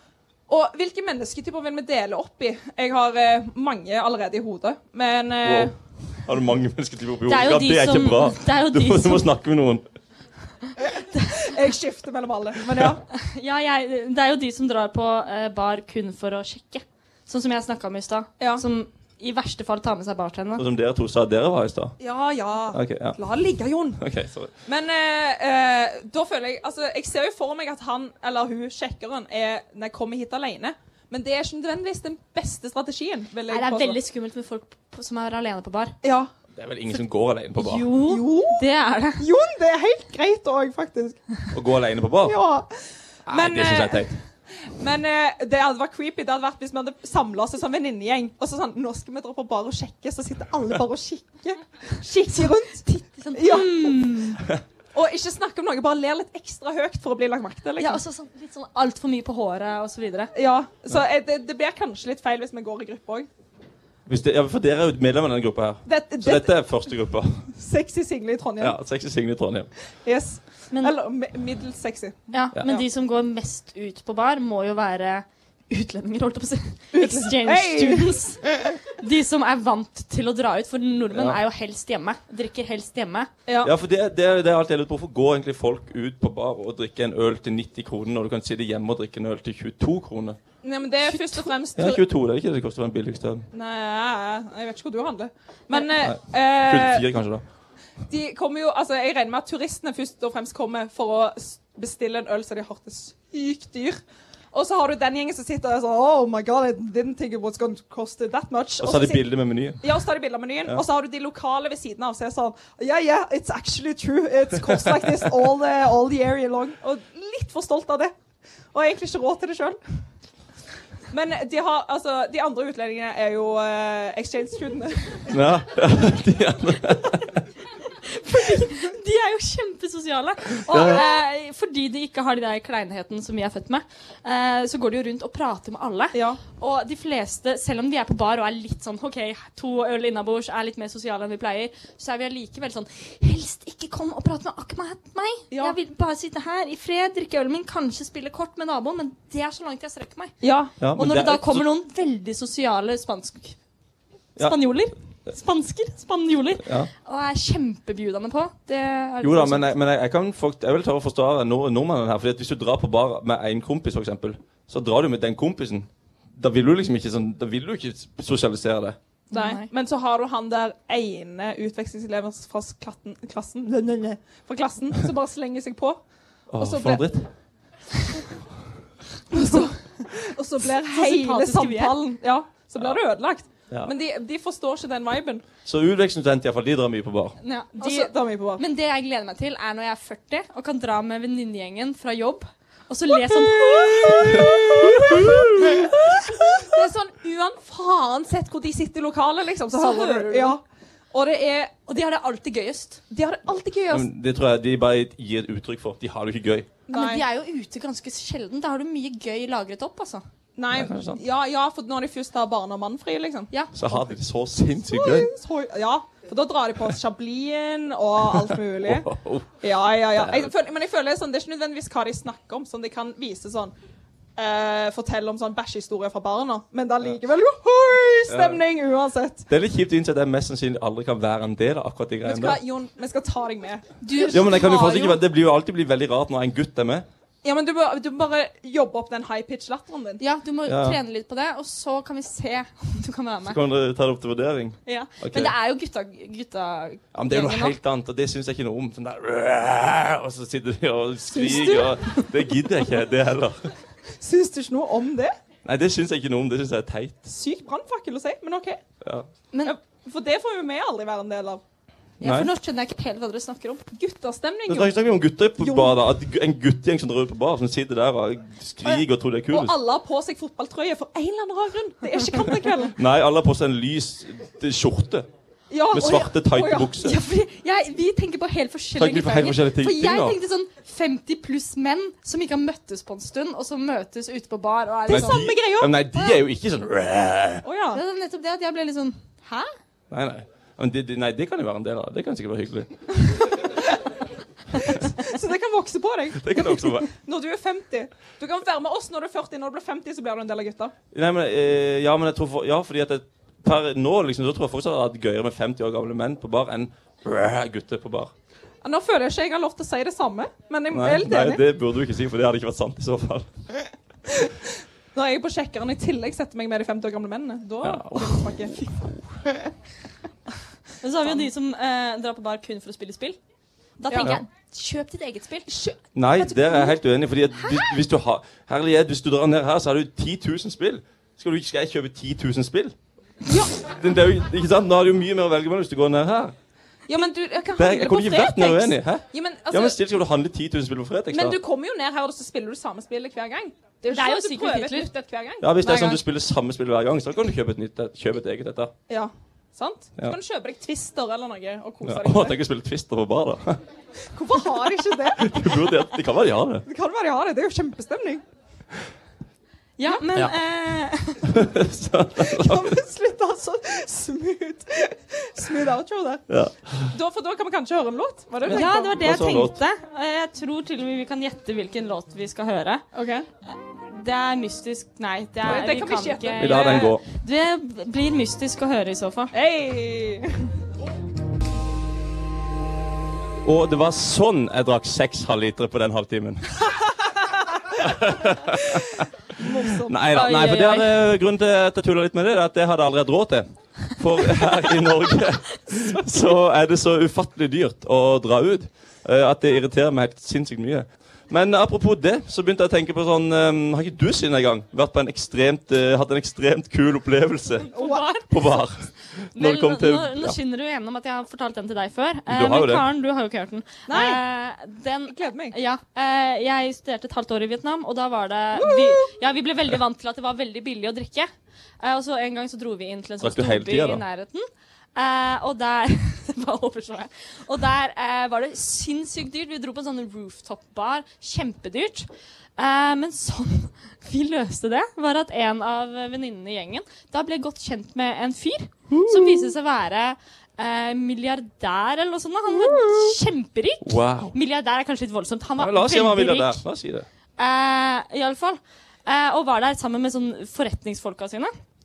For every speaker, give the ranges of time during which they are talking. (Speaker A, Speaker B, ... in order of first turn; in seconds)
Speaker A: 0.5-5.7, 11.2-13.0, 22.0-24.0, 24.6-34.0, 36.0-36.3, 38.0-38.6, 39.2-41.2, 42.2-42.7, 43.3-44.1, 44.8-54.3, 54.9-58.0, 60.3-63.3, 65.8-66.6, 67.5-68.8, 70.0-72.8, 76.9-78.2, 83.5-83.7, 90.6-92.0, 93.5-97.1, 98.1-104.0, 104.5-109.3, 109.8-118.1, 118.7-119.8, 121.1-125.3, 130.7-131.2, 136.1-136.4, 145.5-145.8, 150.4-150.7, 169.3-176.0, 176.6-177.0, 179.3-185.4, 187.8-188.6, 193.5-201.7, 203.1-204.1, 206.9-207.2, 210.6-213.5, 214.8-223.7, 224.4-229.5, 232.2-235.1, 237.4-240.2, 251.5-251.7, 254.2-255.3, 257.2-258.8, 259.6-261.6, 263.9-264.9, 265.6-266.0, 268.8-272.9, 275.7-276.9, 285.1-286.0, 287.6-288.0, 293.5-293.8, 294.7-300.9, 308.8-311.6, 315.1-318.8, 324.1-324.4, 325.7-326.9, 337.1-340.0, 341.3-346.2, 349.1-352.6, 354.3-355.5, 356.9-358.4, 362.4-366.4, 367.1-369.1, 373.1-373.4, 375.6-377.2, 379.5-380.7, 389.6-390.7, 408.0-408.3, 414.1-414.4, 415.3-415.8, 418.8-419.2
Speaker B: 5.4-5.7, 6.2-9.8, 20.6-21.9, 22.7-23.2, 24.0-24.5, 36.6-37.9, 41.5-42.3, 43.3-44.1, 64.1-67.5, 68.6-69.7, 81.1-81.4, 83.6-90.4, 91.8-93.5, 96.0-97.4, 108.8-109.8, 125.3-127.2, 130.7-131.0, 150.8-151.7, 156.6-156.9, 159.2-169.0, 176.5-177.3, 185.6-187.4, 195.2-195.7, 203.9-206.7, 210.7-211.2, 213.7-215.3, 218.4-219.6, 220.1-220.5, 228.3-228.6, 229.5-232.6, 234.3-237.1, 240.7-241.0, 243.4-245.5, 247.1-253.6, 255.6-257.2, 259.0-259.3, 262.2-262.5, 264.7-269.7, 273.0-275.3, 275.9-277.2, 279.0-280.4, 285.1-287.6, 290.1-292.9, 296.4-297.1, 301.1-308.3, 310.9-313.5, 317.8-319.2, 326.1-332.9, 333.7-336.5, 337.8-341.6, 345.6-348.9, 352.0-353.8, 355.4-356.8, 361.5-362.9, 366.5-367.1, 368.6-369.8, 376.6-377.2, 383.6-386.8, 388.0-389.2, 390.0-407.9, 408.5-410.6, 412.5-413.1, 423.4-424.2, 439.2-439.7, 444.0-444.5, 445.8-447.3
Speaker C: 7.3-9.3, 10.8-11.2, 13.1-20.6, 33.5-35.9, 37.5-39.2, 52.3-54.4, 57.8-60.3, 72.3-83.3, 91.0-91.5, 127.9-150.3, 150.9-153.6, 154.4-159.7, 169.3-169.7, 179.3-179.7, 180.8-182.0, 187.4-196.0, 199.7-200.5, 201.9-203.0, 206.9-210.2, 213.5-213.7, 234.0-235.2, 240.2-243.6, 244.8-247.8, 251.3-251.9, 262.2-263.8, 277.0-285.4, 287.9-289.7, 321.0-323.4, 324.0-325.7, 344.1-345.1, 360.0-361.5, 368.7-373.0, 374.1-379.5, 390.3-391.0, 407.9-408.6, 409.5-421.5, 422.0-446.8, 447.6-451.7